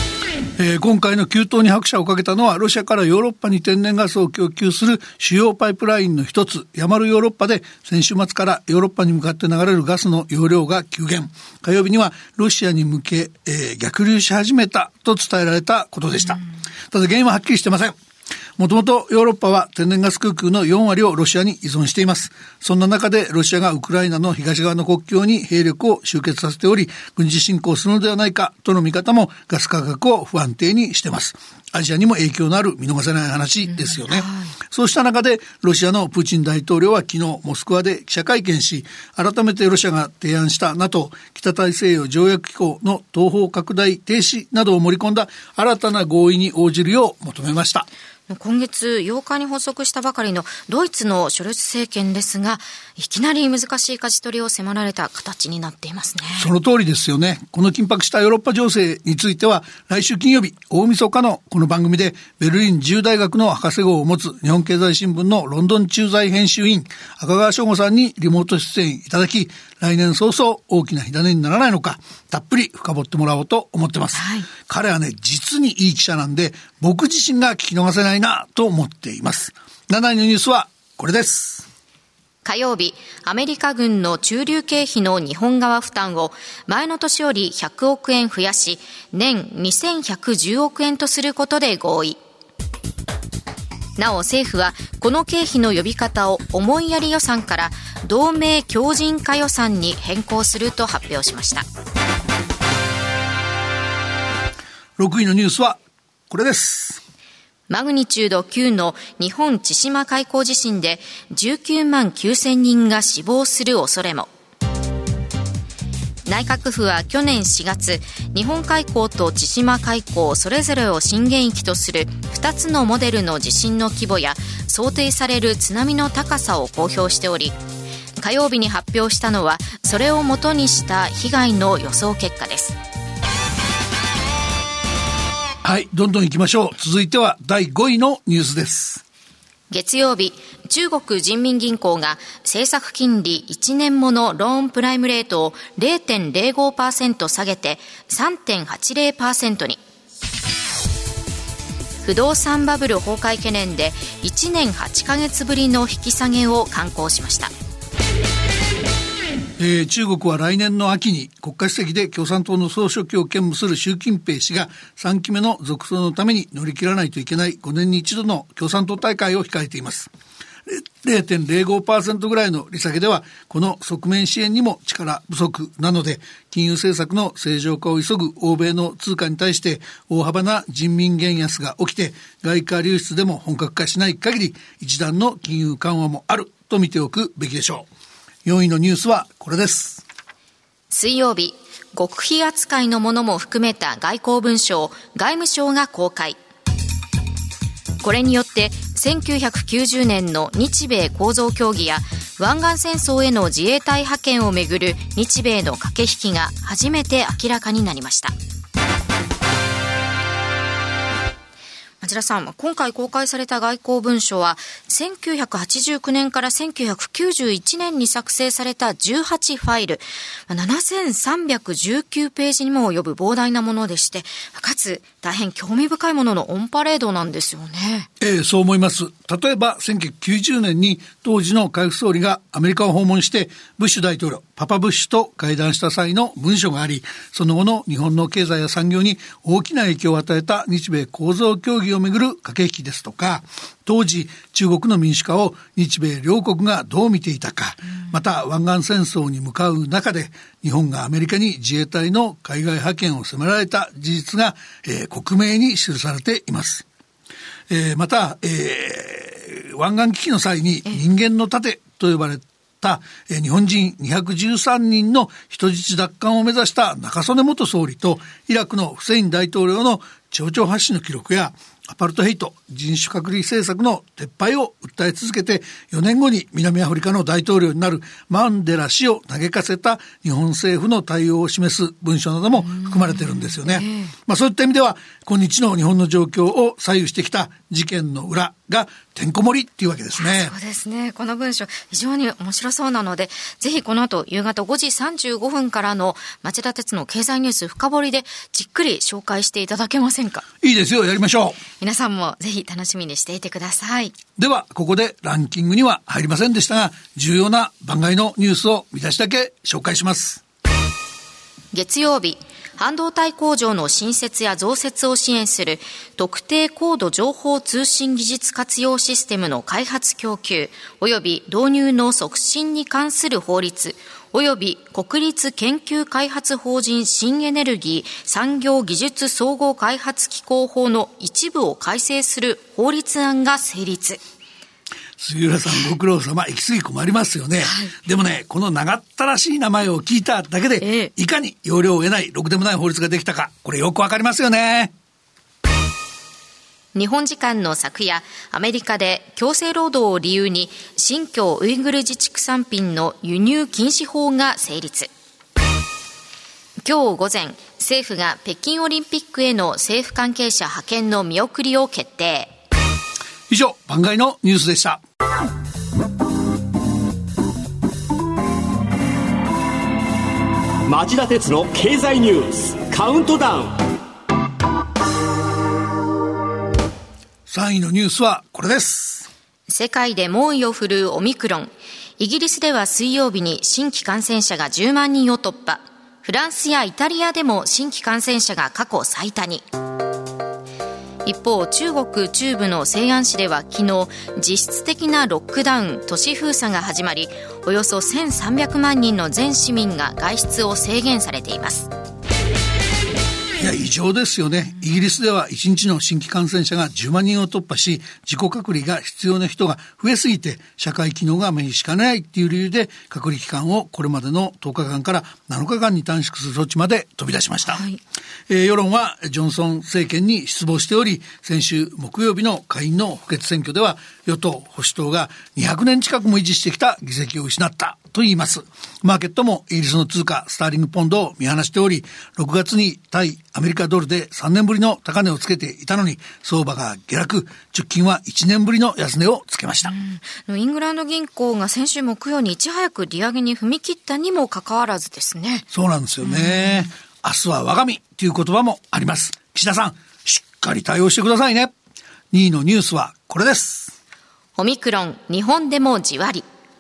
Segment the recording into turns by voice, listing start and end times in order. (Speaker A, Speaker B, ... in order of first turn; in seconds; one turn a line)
Speaker A: 0.6-18.0
Speaker A: 18.6-47.9
Speaker B: 33.7-34.5
Speaker B: 48.3-56.5
Speaker A: 56.4-81.7
Speaker B: 74.1-74.5
Speaker B: 82.4-92.2
Speaker B: 94.0-101.7
Speaker A: 105.0-107.0
Speaker B: 107.7-114.3
Speaker B: 116.2-127.6
Speaker B: 128.2-132.8
Speaker A: 135.6-139.0
Speaker B: 139.7-149.8
Speaker B: 152.0-157.5
Speaker A: 159.6-170.1
Speaker A: 170.7-187.9
Speaker A: 188.4-190.0
Speaker B: 190.9-196.4
Speaker B: 198.0-208.3
Speaker B: 212.0-228.1
Speaker A: 228.2-256.9
Speaker A: 257.7-290.5
Speaker B: 282.7-284.1
Speaker B: 290.2-300.5
Speaker A: 300.6-301.6
Speaker B: 301.8-304.2
Speaker A: 304.4-310.4
Speaker B: 311.7-334.2
Speaker A: 335.2-344.9
Speaker B: 337.6-337.9
Speaker B: 340.8-341.1
Speaker B: 346.9-355.1
Speaker B: 356.8-362.5
Speaker A: 363.5-365.0
Speaker C: 370.9-373.8
Speaker A: 377.5-379.3
Speaker B: 379.7-389.7
Speaker B: 391.2-401.9
Speaker A: 403.6-417.9
Speaker B: 417.6-418.0
Speaker A: 418.5-439.9
Speaker B: 439.9-445.7
Speaker A: 445.7-451.7
Speaker B: 446.2-446.8
Speaker A: 452.3-453.9
Speaker B: 454.6-456.5